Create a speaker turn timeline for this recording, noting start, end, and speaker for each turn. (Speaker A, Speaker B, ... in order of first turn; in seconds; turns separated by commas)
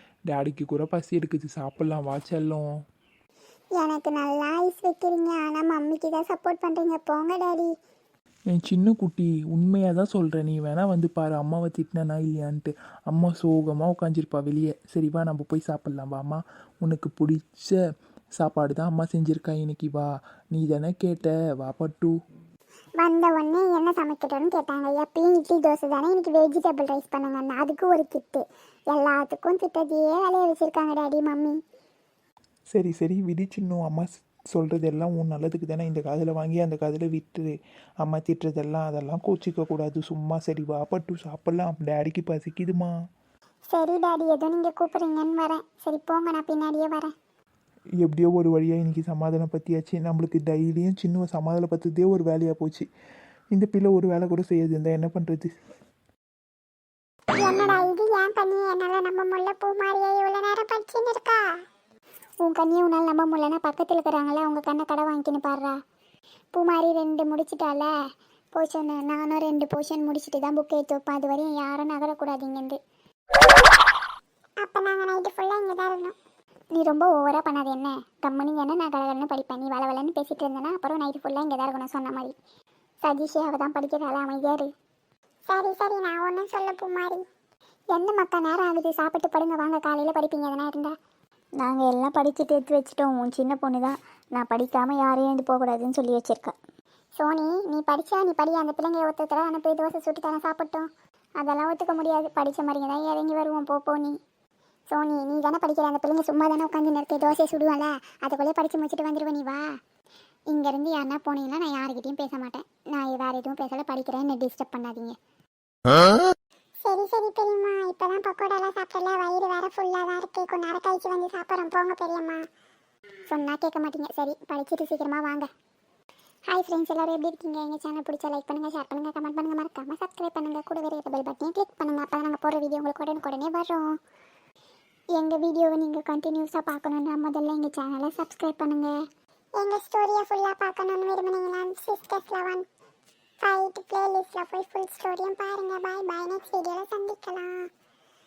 Speaker A: 0.3-2.7, Speaker B: 3.8-7.7, Speaker A: 8.5-17.8, Speaker A: 18.4-22.1, Speaker B: 23.0-31.6, Speaker A: 32.7-42.9, Speaker B: 43.7-47.1, Speaker A: 48.0-52.9, Speaker A: 53.5-55.5, Speaker B: 57.4-61.4, Speaker B: 62.4-65.8, Speaker B: 66.5-67.9, Speaker B: 68.5-72.8, Speaker B: 74.6-76.2, Speaker B: 76.8-82.3, Speaker B: 83.0-84.7, Speaker B: 85.5-87.2, Speaker B: 87.9-90.9, Speaker C: 91.6-96.5, Speaker B: 97.2-100.9, Speaker B: 101.4-104.2, Speaker B: 104.9-109.7, Speaker B: 110.5-115.2, Speaker B: 116.8-122.4, Speaker B: 123.3-125.5, Speaker B: 126.5-133.8, Speaker B: 135.2-138.9, Speaker B: 139.6-142.6, Speaker B: 143.4-147.7